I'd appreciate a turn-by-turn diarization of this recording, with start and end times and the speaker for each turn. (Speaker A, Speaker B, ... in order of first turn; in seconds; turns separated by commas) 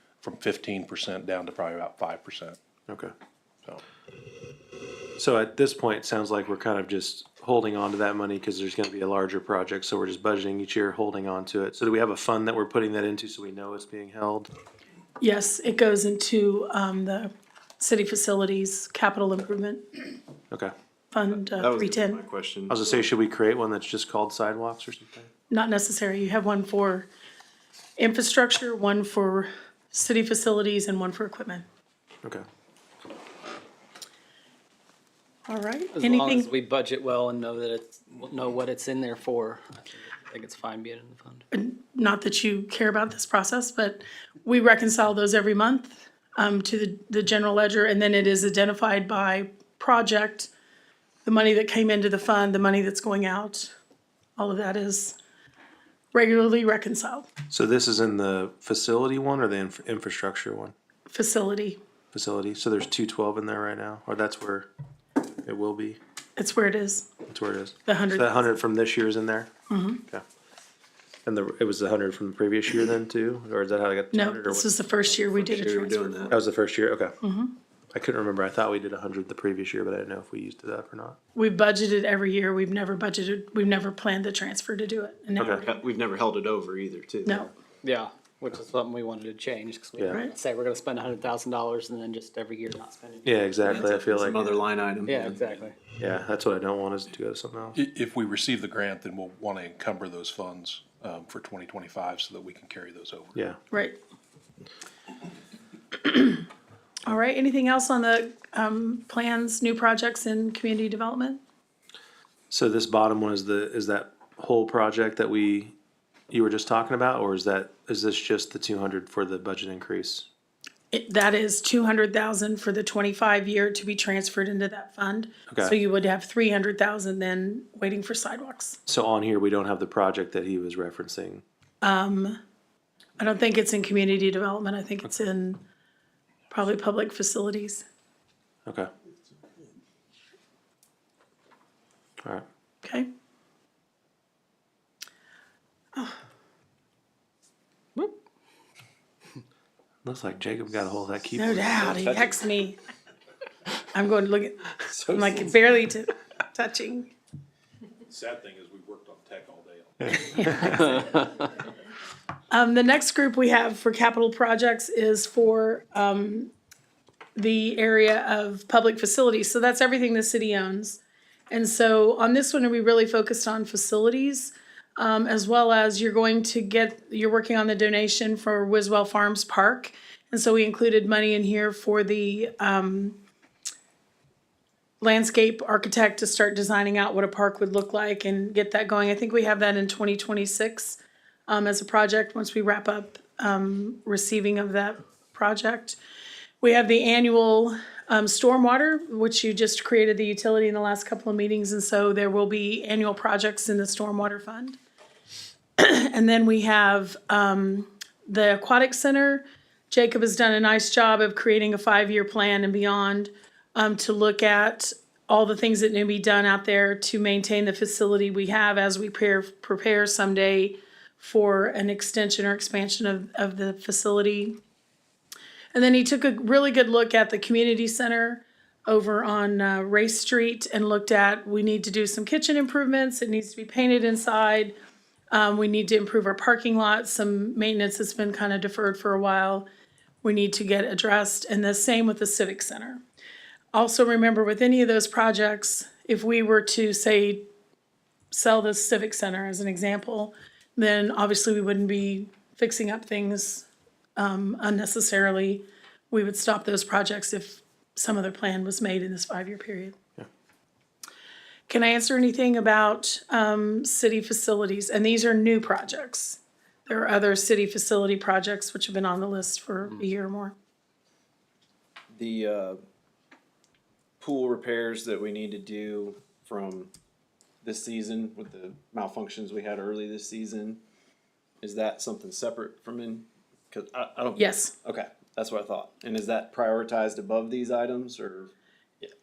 Speaker A: 0.2-2.6, Speaker B: 2.9-3.1, Speaker B: 5.2-14.5, Speaker C: 15.2-20.0, Speaker C: 21.1-22.2, Speaker D: 21.3-23.0, Speaker B: 22.7-25.3, Speaker C: 25.5-27.1, Speaker C: 28.0-31.6, Speaker C: 35.5-36.5, Speaker E: 36.0-41.4, Speaker C: 41.5-50.5, Speaker C: 51.2-53.7, Speaker C: 54.4-55.2, Speaker C: 56.1-57.3, Speaker B: 57.5-60.7, Speaker C: 61.1-61.8, Speaker B: 62.1-64.7, Speaker B: 65.4-66.0, Speaker C: 66.4-67.1, Speaker B: 67.3-69.5, Speaker C: 67.8-68.3, Speaker C: 69.7-70.0, Speaker B: 71.2-74.8, Speaker C: 74.1-76.3, Speaker D: 75.1-76.3, Speaker B: 76.3-77.2, Speaker C: 77.2-77.5, Speaker B: 77.9-81.2, Speaker C: 81.3-85.8, Speaker B: 85.4-85.6, Speaker D: 85.5-87.5, Speaker C: 87.2-87.5, Speaker E: 87.8-93.9, Speaker B: 93.2-94.4, Speaker D: 93.7-95.7, Speaker E: 95.0-95.8, Speaker B: 96.0-97.8, Speaker A: 97.8-103.4, Speaker C: 103.7-104.0, Speaker C: 105.9-106.4, Speaker C: 107.1-111.4, Speaker B: 112.5-115.7, Speaker B: 116.3-120.3, Speaker C: 120.9-128.8, Speaker B: 125.5-125.8, Speaker B: 128.9-131.4, Speaker C: 131.8-132.4, Speaker C: 133.2-135.6, Speaker C: 136.5-137.8, Speaker B: 150.0-152.0, Speaker C: 151.3-152.8, Speaker D: 151.8-152.6, Speaker C: 153.9-157.1, Speaker D: 154.8-155.7, Speaker A: 158.1-161.0, Speaker C: 162.5-166.5, Speaker C: 167.4-183.2, Speaker C: 185.0-196.0, Speaker C: 196.6-204.8, Speaker C: 205.8-224.6, Speaker C: 225.7-234.7, Speaker C: 235.3-239.7, Speaker C: 240.2-243.0, Speaker C: 243.7-247.4, Speaker C: 248.3-260.0, Speaker C: 261.7-270.5, Speaker D: 272.1-272.8, Speaker D: 274.2-276.9, Speaker D: 277.6-280.8, Speaker D: 281.6-289.1, Speaker C: 284.4-284.7